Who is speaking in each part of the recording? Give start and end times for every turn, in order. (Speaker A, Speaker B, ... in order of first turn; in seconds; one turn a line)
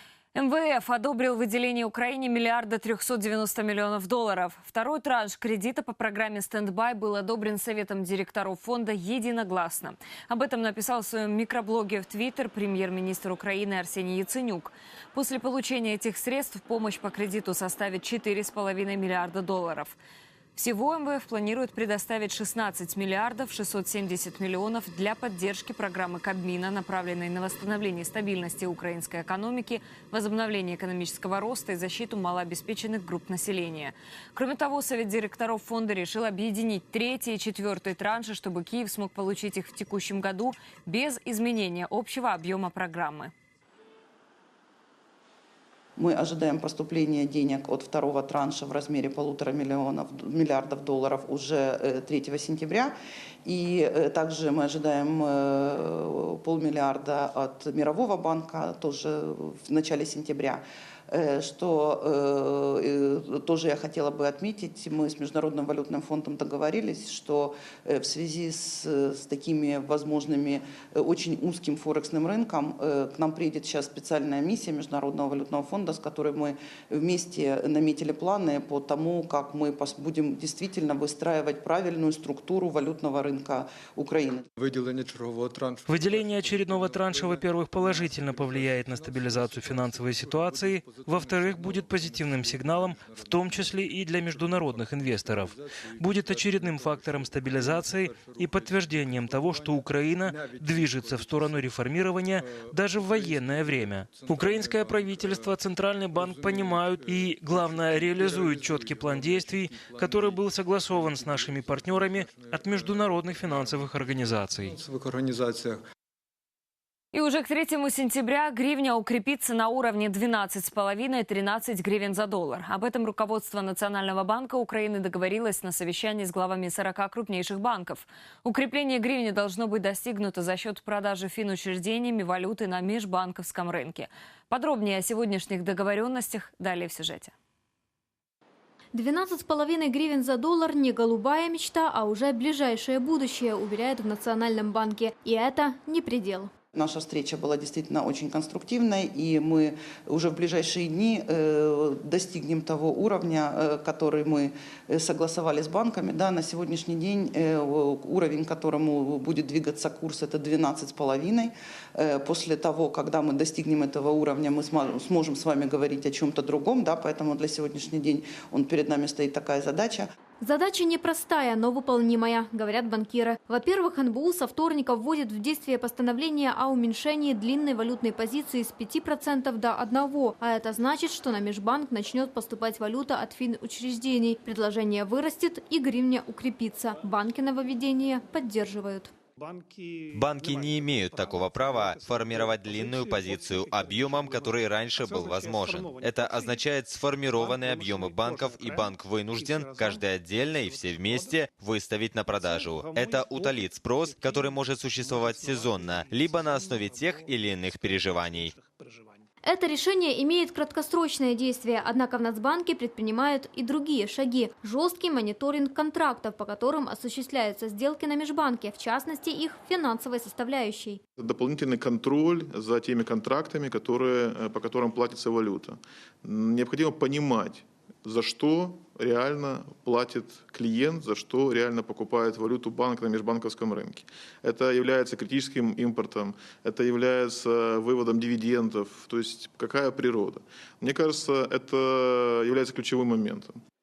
Speaker A: 0.3-20.0
Speaker A: 20.5-43.3
Speaker B: 46.0-52.9
Speaker B: 53.4-84.4
Speaker C: 84.6-101.8
Speaker D: 85.9-114.8
Speaker C: 102.3-115.8
Speaker A: 117.1-137.3
Speaker E: 138.9-146.5
Speaker B: 146.7-170.1
Speaker E: 170.4-189.1
Speaker F: 190.1-208.5
Speaker E: 209.5-221.0
Speaker G: 221.2-243.6